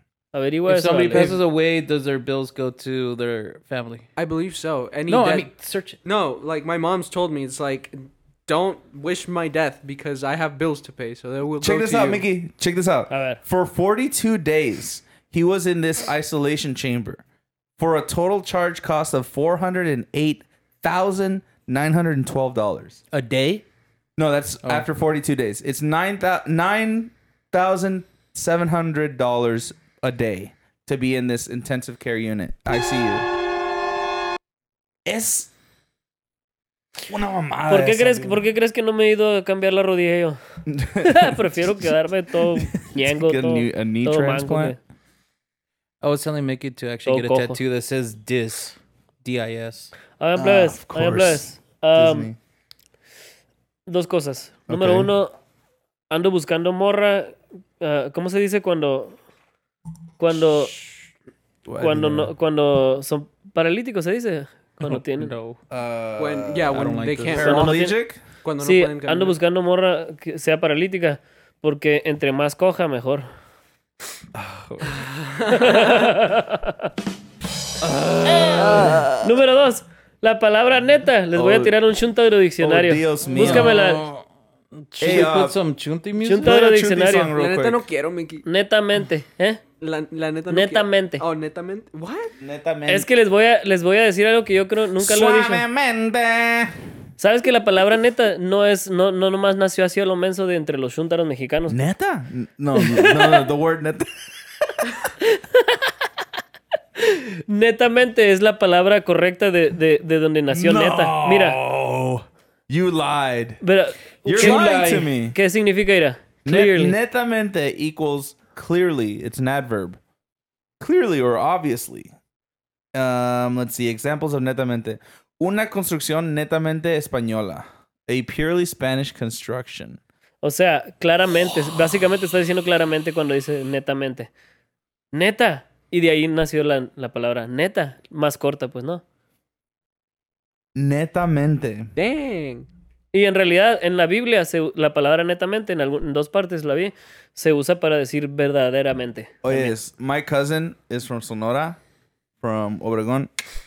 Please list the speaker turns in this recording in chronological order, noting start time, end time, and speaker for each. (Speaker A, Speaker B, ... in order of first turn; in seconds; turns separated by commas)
Speaker A: 0.3-1.3, Speaker B: 0.7-4.1, Speaker C: 4.2-5.5, Speaker B: 5.1-6.0, Speaker C: 6.0-12.2, Speaker D: 11.6-17.2, Speaker A: 13.1-13.4, Speaker D: 17.8-23.0, Speaker B: 23.1-23.6, Speaker D: 24.2-33.3, Speaker D: 35.0-35.5, Speaker D: 37.1-38.4, Speaker A: 37.7-40.4, Speaker D: 40.7-41.9, Speaker A: 41.0-44.8, Speaker D: 42.6-44.8, Speaker B: 46.0-49.9, Speaker A: 47.0-47.6, Speaker A: 50.2-52.3, Speaker D: 50.4-52.4, Speaker A: 53.9-55.3, Speaker D: 54.7-55.1, Speaker A: 56.1-59.1, Speaker A: 60.2-60.7, Speaker D: 60.3-60.9, Speaker D: 61.6-62.3, Speaker A: 61.8-65.3, Speaker B: 64.8-65.6, Speaker D: 65.7-68.2, Speaker C: 66.2-67.8, Speaker B: 66.7-67.5, Speaker A: 67.4-67.9, Speaker C: 68.4-69.4, Speaker A: 68.6-73.2, Speaker D: 74.3-74.8, Speaker C: 74.9-76.1, Speaker A: 75.5-76.9, Speaker D: 77.8-79.3, Speaker A: 79.2-84.0, Speaker D: 81.3-81.8, Speaker D: 82.6-83.7, Speaker B: 83.3-86.5, Speaker D: 85.0-85.6, Speaker A: 86.2-87.3, Speaker D: 86.4-87.8, Speaker C: 87.3-88.4, Speaker A: 88.4-89.6, Speaker C: 89.8-92.3, Speaker A: 90.5-91.2, Speaker D: 92.4-93.1, Speaker A: 92.9-95.6, Speaker D: 95.0-96.7, Speaker A: 97.2-101.8, Speaker D: 101.7-104.1, Speaker A: 102.8-103.4, Speaker A: 107.0-111.6, Speaker D: 110.5-113.6, Speaker A: 113.6-117.0, Speaker D: 114.2-115.3, Speaker B: 114.3-115.1, Speaker D: 116.4-120.0, Speaker D: 120.8-122.1, Speaker D: 122.9-130.0, Speaker A: 130.4-134.3, Speaker A: 135.1-139.0, Speaker D: 140.7-141.9, Speaker C: 141.9-142.7, Speaker A: 143.1-149.7, Speaker D: 149.4-151.8, Speaker D: 152.4-153.3